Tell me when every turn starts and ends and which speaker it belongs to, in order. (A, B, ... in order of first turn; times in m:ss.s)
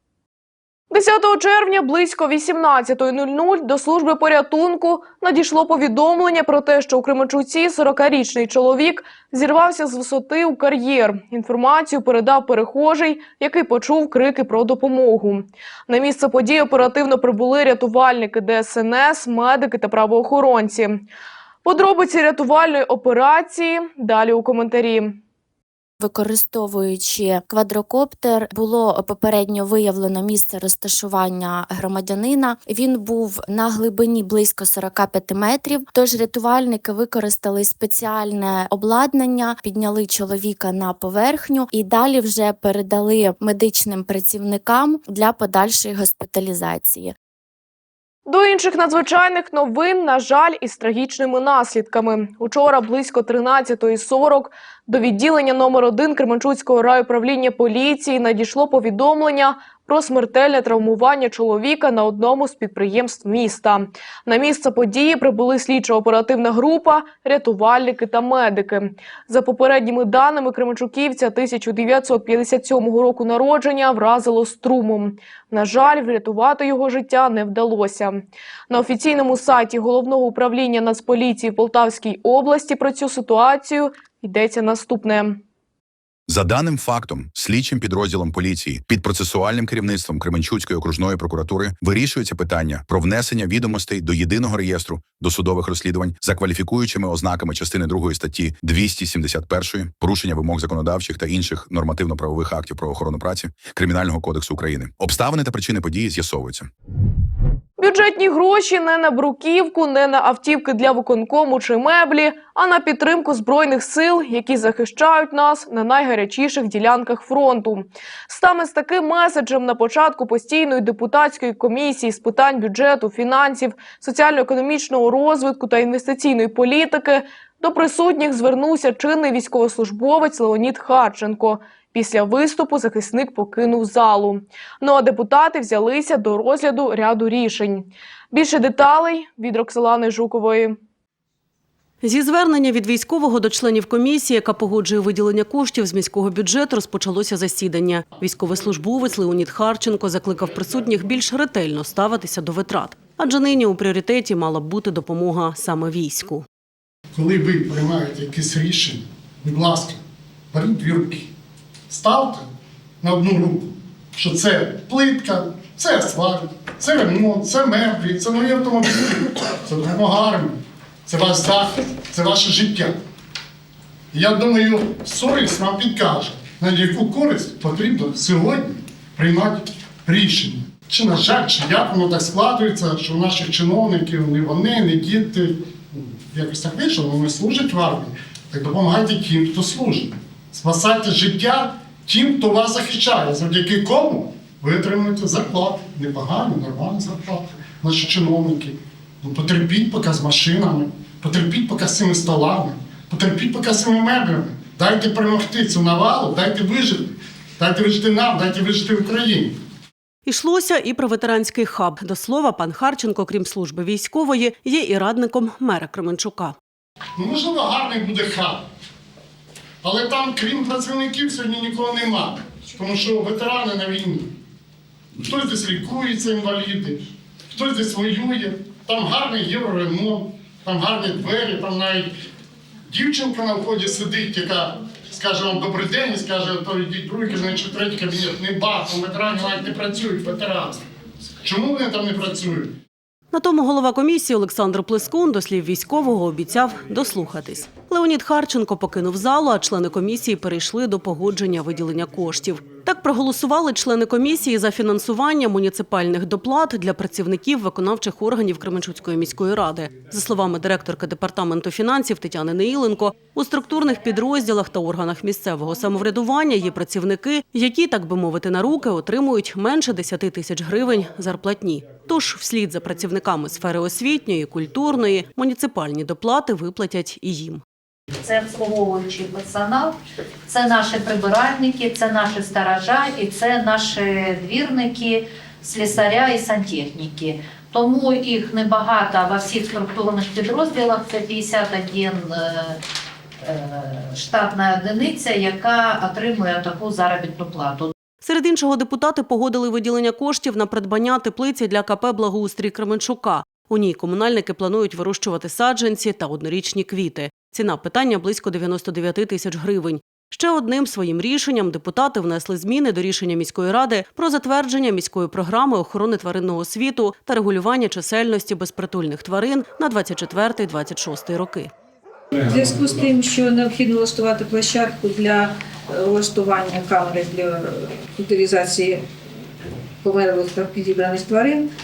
0:00.9-0:21.1 A
0:21.6-0:25.2 A
0:26.0-0:47.1 B
0:48.3-1:25.4 A
1:26.3-1:46.7 C
1:47.8-2:20.8 A
2:22.0-2:36.4 D
2:37.1-2:40.0 E
2:40.5-2:41.3 E
2:41.9-2:42.5 E
2:43.0-2:53.0 E
2:54.1-3:29.6 E
3:30.3-3:36.6 D
3:37.2-3:38.6 E
3:39.8-3:44.3 E
3:45.2-3:52.2 E
3:52.9-4:00.8 E
4:01.4-4:02.8 E
4:03.3-4:37.6 D
4:38.2-4:39.9 F
4:40.5-4:52.8 F
4:53.4-4:57.9 F
4:58.2-5:21.7 D
5:22.4-5:29.1 G
5:30.0-5:31.7 G